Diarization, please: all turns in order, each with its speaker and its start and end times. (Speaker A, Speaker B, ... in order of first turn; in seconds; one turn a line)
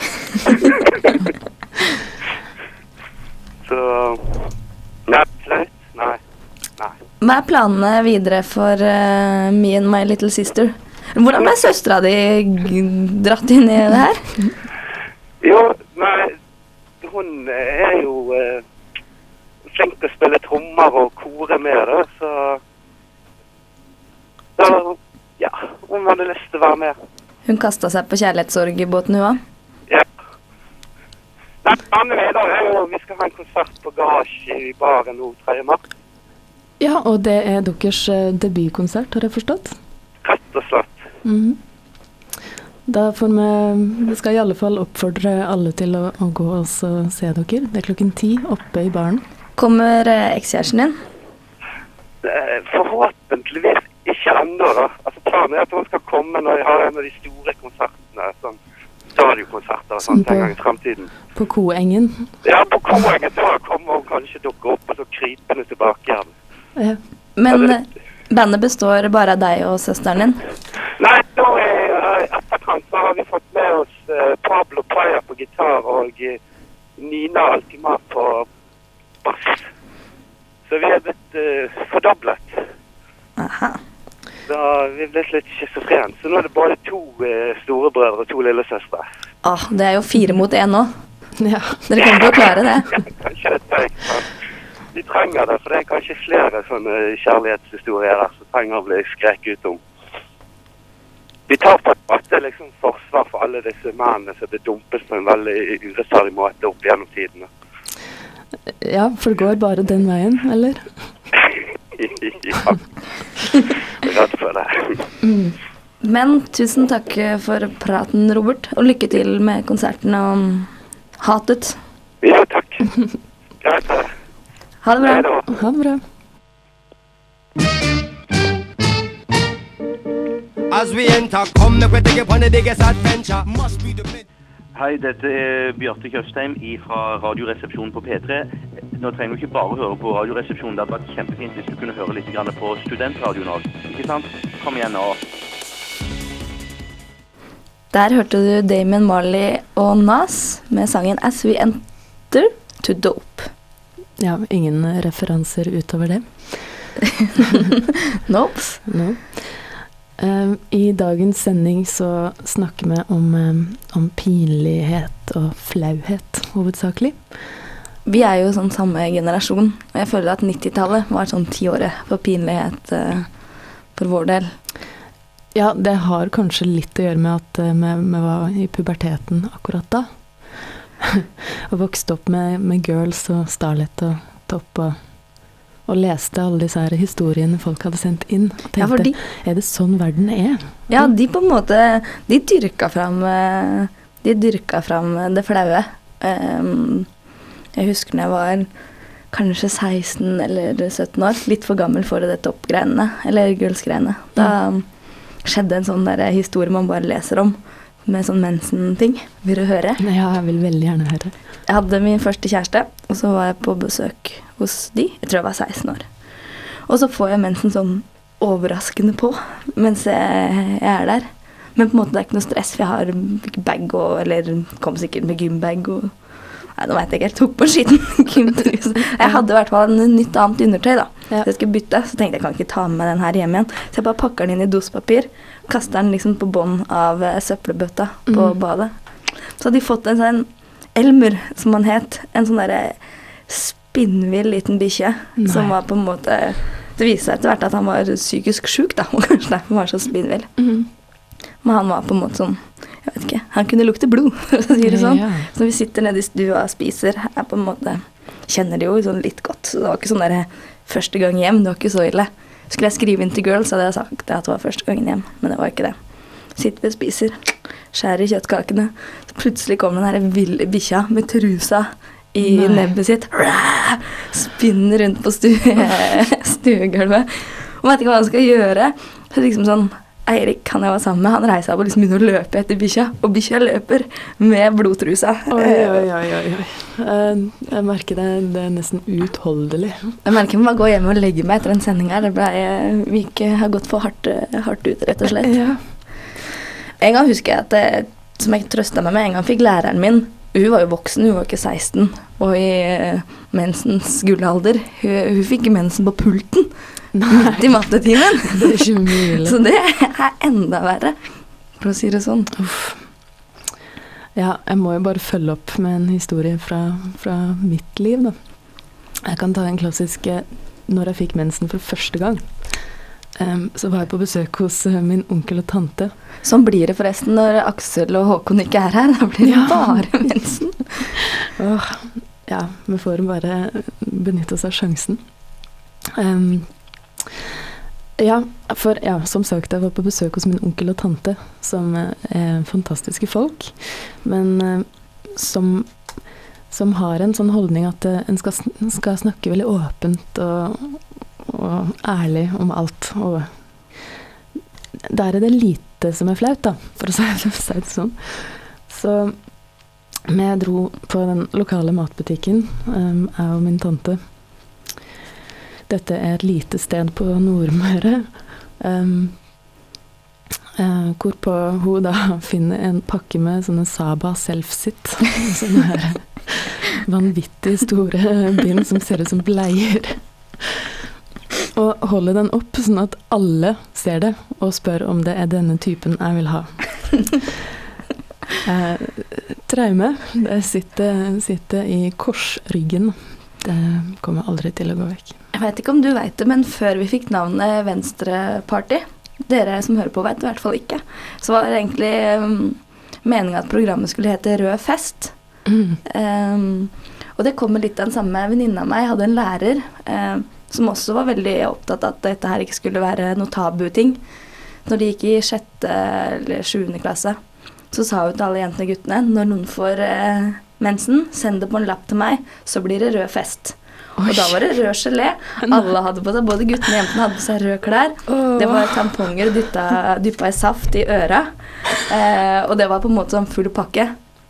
Speaker A: 0.4-1.2
Speaker A: 3.7-4.5
Speaker A: 5.1-6.2
Speaker B: 7.2-14.4
Speaker A: 15.4-16.4
Speaker A: 17.0-18.6
Speaker A: 19.7-22.6
Speaker A: 24.6-27.0
Speaker B: 27.5-29.4
Speaker A: 31.6-35.8
Speaker C: 36.8-39.8
Speaker A: 40.2-41.0
Speaker C: 41.2-41.6
Speaker C: 42.9-49.2
Speaker B: 49.6-51.0
Speaker A: 52.2-58.6
Speaker A: 59.1-61.1
Speaker C: 60.1-60.5
Speaker C: 61.4-62.3
Speaker A: 62.4-66.3
Speaker C: 66.8-67.0
Speaker B: 67.4-70.4
Speaker A: 71.0-76.4
Speaker A: 77.0-78.5
Speaker A: 79.2-79.7
Speaker A: 80.7-82.6
Speaker B: 83.4-83.8
Speaker A: 84.5-89.1
Speaker B: 89.4-91.0
Speaker C: 91.4-91.9
Speaker B: 91.9-93.0
Speaker A: 93.2-94.3
Speaker A: 94.9-99.8
Speaker A: 101.5-107.5
Speaker C: 108.8-110.9
Speaker A: 112.0-112.8
Speaker A: 113.5-115.0
Speaker C: 115.2-115.6
Speaker B: 116.0-121.8
Speaker A: 122.2-123.1
Speaker A: 123.6-124.1
Speaker B: 124.8-125.3
Speaker A: 125.0-125.5
Speaker C: 125.5-126.0
Speaker D: 130.7-134.2
Speaker E: 134.7-145.2
Speaker B: 147.9-153.5
Speaker C: 154.2-156.9
Speaker B: 158.2-158.8
Speaker C: 158.8-167.3
Speaker B: 168.1-173.3
Speaker B: 173.9-174.6
Speaker C: 175.5-191.1
Speaker B: 188.8-189.2
Speaker B: 190.9-197.1
Speaker B: 197.8-198.7
Speaker B: 199.3-210.0
Speaker C: 210.0-211.3
Speaker B: 211.7-216.1
Speaker B: 216.9-250.6
Speaker C: 238.3-238.6
Speaker C: 245.4-245.8
Speaker C: 250.6-250.9
Speaker B: 251.6-286.1
Speaker C: 254.8-255.5
Speaker C: 272.4-272.9
Speaker C: 285.5-290.2
Speaker B: 290.2-295.6
Speaker C: 295.2-295.8
Speaker B: 297.0-306.7
Speaker C: 307.1-307.9
Speaker B: 307.3-311.2
Speaker C: 308.4-309.6
Speaker B: 311.8-312.5
Speaker C: 312.5-313.1
Speaker C: 314.4-318.7
Speaker C: 319.2-326.1
Speaker B: 326.4-331.1
Speaker C: 329.4-330.2
Speaker C: 331.4-335.4
Speaker C: 336.1-337.3
Speaker C: 338.2-354.1
Speaker C: 355.1-364.4
Speaker C: 365.9-369.4
Speaker C: 370.8-380.7
Speaker C: 381.7-387.4
Speaker C: 388.6-395.4
Speaker B: 395.5-414.2
Speaker C: 405.7-406.0
Speaker B: 414.9-417.4
Speaker B: 417.9-434.2
Speaker C: 424.2-424.6
Speaker C: 425.6-425.9
Speaker C: 428.3-429.3